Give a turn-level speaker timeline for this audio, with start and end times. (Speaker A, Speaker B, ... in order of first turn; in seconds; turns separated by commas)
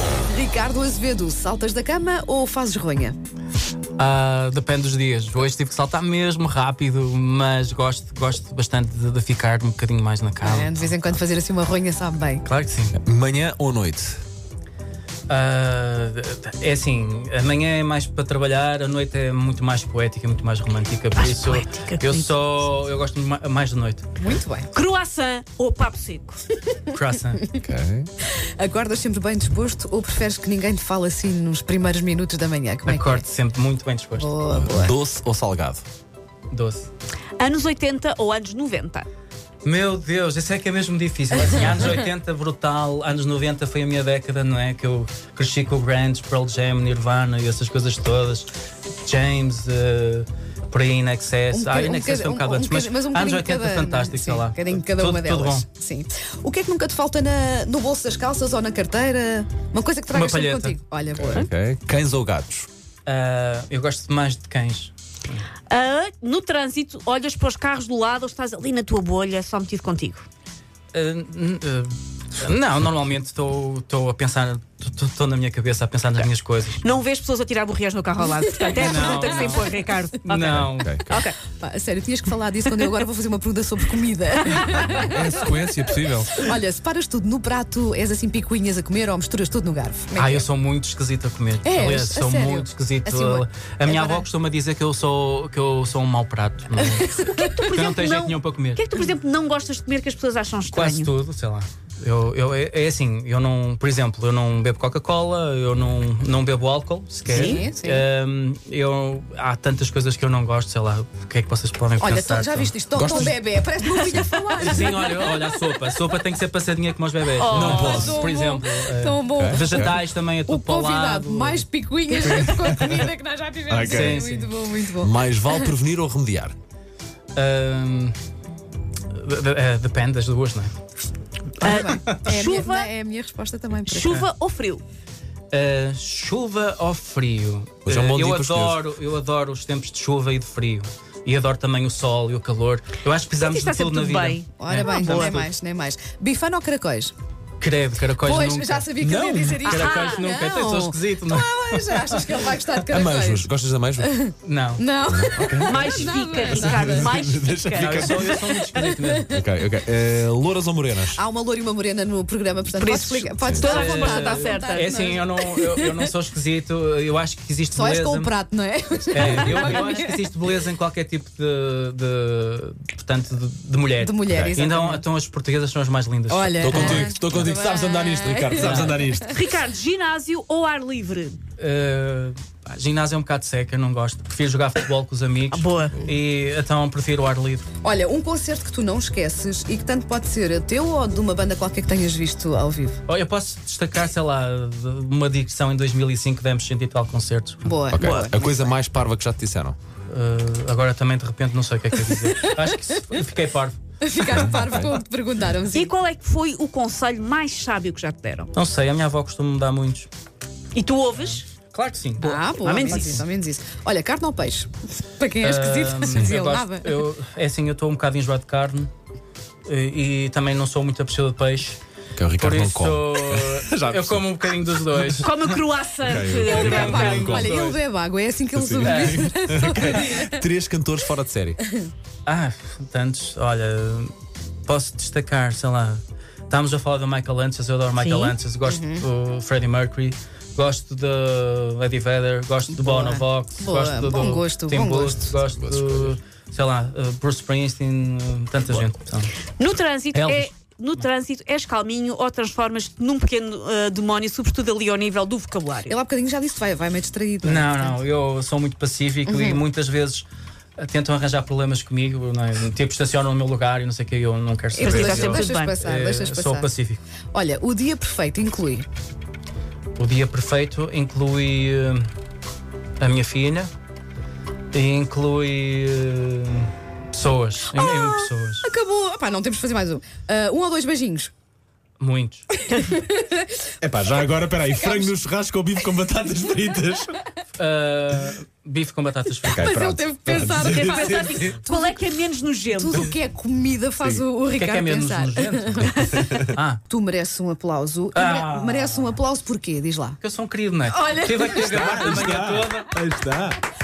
Speaker A: 0.3-3.2, Speaker B: 4.0-10.9, Speaker A: 10.4-12.4, Speaker B: 12.4-12.9, Speaker C: 12.9-14.2, Speaker B: 15.3-24.1, Speaker D: 21.1-22.3, Speaker A: 24.2-24.7, Speaker D: 24.7-26.4, Speaker B: 26.9-27.5, Speaker C: 27.6-28.1, Speaker A: 28.6-33.2, Speaker B: 32.9-34.3, Speaker A: 34.2-35.0, Speaker C: 34.5-35.8, Speaker B: 36.5-36.9, Speaker D: 37.4-39.1, Speaker B: 39.6-48.5, Speaker B: 49.0-55.6, Speaker A: 51.5-61.5, Speaker B: 60.1-60.8, Speaker C: 61.1-62.7, Speaker B: 63.0-65.5, Speaker D: 65.7-70.2, Speaker B: 70.9-76.8, Speaker D: 76.8-81.3, Speaker A: 78.7-79.2, Speaker B: 78.7-79.7, Speaker B: 80.2-81.0, Speaker C: 80.5-81.2, Speaker A: 81.6-90.5, Speaker C: 84.8-86.4, Speaker B: 90.2-97.2, Speaker A: 91.6-94.3, Speaker D: 97.1-101.1, Speaker B: 97.7-98.8, Speaker B: 100.7-112.7, Speaker D: 107.3-107.6, Speaker A: 107.3-108.0, Speaker A: 112.0-115.3, Speaker C: 113.0-114.9, Speaker B: 114.6-121.6, Speaker D: 117.3-118.2, Speaker C: 117.5-118.2, Speaker A: 117.5-119.9, Speaker C: 119.4-120.0, Speaker A: 120.5-125.7, Speaker C: 122.2-123.1, Speaker C: 123.7-124.2, Speaker B: 123.8-124.6, Speaker C: 125.0-126.5, Speaker B: 127.3-128.2, Speaker B: 129.1-130.7, Speaker D: 131.6-132.9, Speaker A: 131.6-134.3, Speaker B: 131.9-132.1, Speaker D: 133.8-134.8, Speaker B: 135.5-145.5, Speaker C: 137.8-138.8, Speaker D: 143.4-145.4, Speaker A: 144.6-147.1, Speaker B: 147.6-148.9, Speaker A: 148.2-157.1, Speaker C: 149.0-149.6, Speaker B: 149.6-152.5, Speaker D: 149.6-150.7, Speaker C: 152.9-154.1, Speaker B: 154.4-154.8, Speaker C: 155.1-158.3, Speaker D: 155.6-158.5, Speaker B: 157.7-159.3, Speaker A: 158.7-159.4, Speaker C: 159.3-161.2, Speaker A: 161.1-166.0, Speaker D: 162.7-164.9, Speaker B: 163.6-168.3, Speaker A: 167.7-170.2, Speaker B: 169.1-177.6, Speaker A: 174.0-175.0, Speaker C: 174.3-174.5, Speaker A: 176.3-179.2, Speaker C: 176.6-179.4, Speaker B: 178.5-179.0, Speaker D: 179.2-181.4, Speaker B: 181.6-187.6, Speaker D: 185.5-186.0, Speaker A: 187.8-193.0, Speaker B: 193.1-197.7, Speaker A: 197.6-198.8, Speaker C: 197.9-199.8, Speaker D: 198.0-198.3, Speaker B: 200.1-204.6, Speaker A: 204.0-205.9, Speaker C: 204.4-204.9, Speaker D: 205.7-208.5, Speaker B: 208.5-210.1, Speaker D: 210.7-211.4, Speaker B: 211.1-213.2, Speaker A: 212.2-217.0, Speaker D: 212.2-213.2, Speaker B: 215.4-218.9, Speaker B: 219.7-221.8, Speaker C: 222.2-225.2, Speaker B: 222.4-225.6, Speaker D: 225.2-227.3, Speaker C: 226.0-227.6, Speaker B: 226.4-227.8, Speaker A: 226.5-230.4, Speaker C: 228.5-231.6, Speaker B: 228.8-229.3, Speaker B: 232.2-234.1, Speaker B: 234.6-249.3, Speaker D: 238.0-238.3, Speaker A: 238.6-239.0, Speaker A: 242.7-245.3, Speaker C: 245.5-246.1, Speaker D: 249.6-255.9, Speaker B: 250.1-251.0, Speaker A: 255.9-258.0, Speaker B: 257.4-260.2, Speaker A: 259.2-259.6, Speaker B: 260.8-267.0, Speaker A: 264.7-266.7, Speaker D: 264.8-265.8, Speaker A: 267.3-268.9, Speaker B: 269.9-272.1, Speaker B: 273.0-273.7, Speaker B: 274.7-278.7, Speaker A: 277.7-281.3, Speaker B: 282.0-282.5, Speaker A: 282.5-283.6, Speaker D: 282.7-283.0, Speaker C: 283.8-287.2, Speaker A: 284.8-285.1, Speaker B: 287.6-289.8, Speaker C: 289.5-291.6, Speaker A: 289.5-292.0, Speaker D: 290.5-293.0, Speaker A: 292.7-296.1, Speaker B: 294.5-296.8, Speaker C: 296.0-296.5, Speaker A: 296.9-300.2, Speaker B: 298.1-299.2, Speaker B: 300.2-302.9, Speaker A: 300.9-302.2, Speaker C: 301.5-303.6